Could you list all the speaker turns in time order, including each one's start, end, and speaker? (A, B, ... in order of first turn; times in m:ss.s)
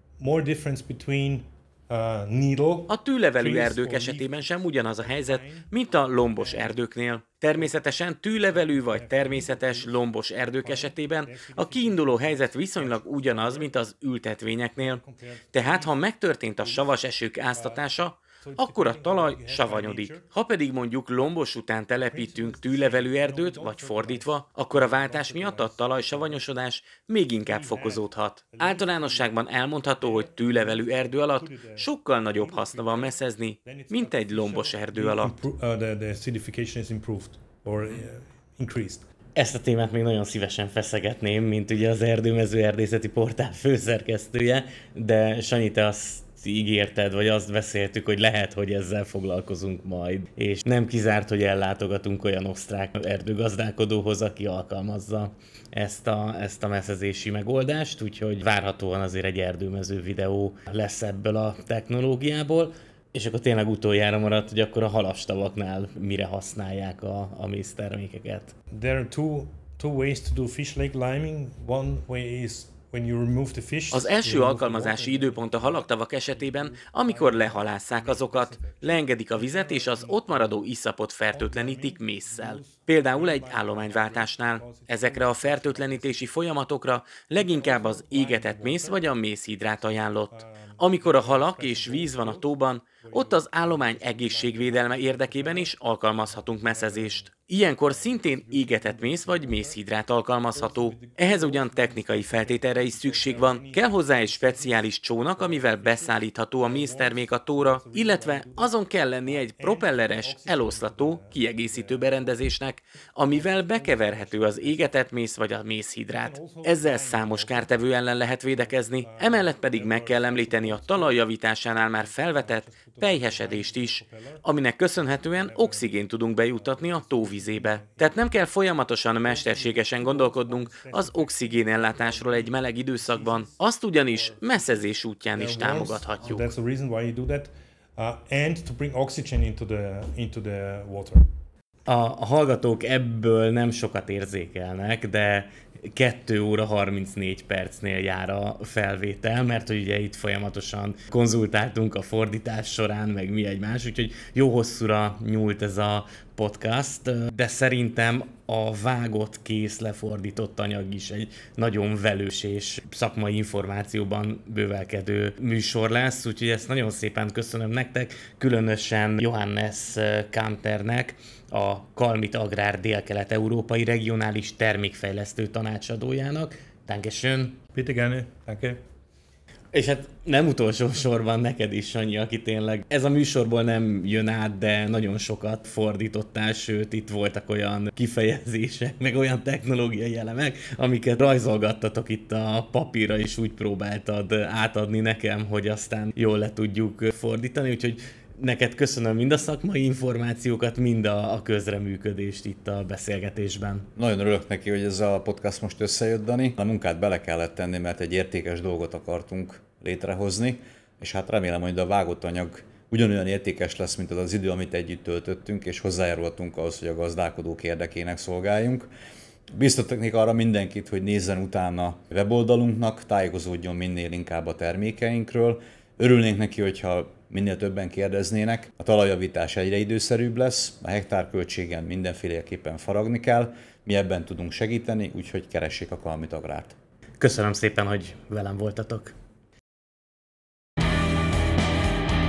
0:00.2-0:05.7 A
0:02.9-0:15.0 B
0:06.4-0:06.8 A
0:07.6-0:07.8 A
0:08.5-0:13.8 A
0:14.8-0:16.0 A
0:15.5-0:35.4 B
0:16.6-0:16.9 A
0:17.5-0:20.3 A
0:22.1-0:26.4 A
0:27.4-0:29.4 A
0:30.0-0:39.1 A
0:39.4-1:08.5 B
1:08.7-1:20.6 A
1:13.9-2:16.5 B
1:21.3-1:26.3 A
1:27.4-1:29.1 A
1:30.3-1:32.5 A
1:33.0-1:35.7 A
1:36.3-1:37.3 A
1:37.9-1:39.8 A
1:40.5-1:48.7 A
1:49.2-1:52.4 A
1:53.2-1:55.0 A
1:56.1-1:57.7 A
1:59.0-2:01.2 A
2:02.0-2:04.4 A
2:05.0-2:08.2 A
2:09.2-2:21.3 A
2:21.9-2:57.6 B
2:57.7-2:58.8 A
2:59.7-3:23.9 B
3:24.0-3:38.9 C
3:39.5-3:56.8 C
3:57.2-3:59.2 B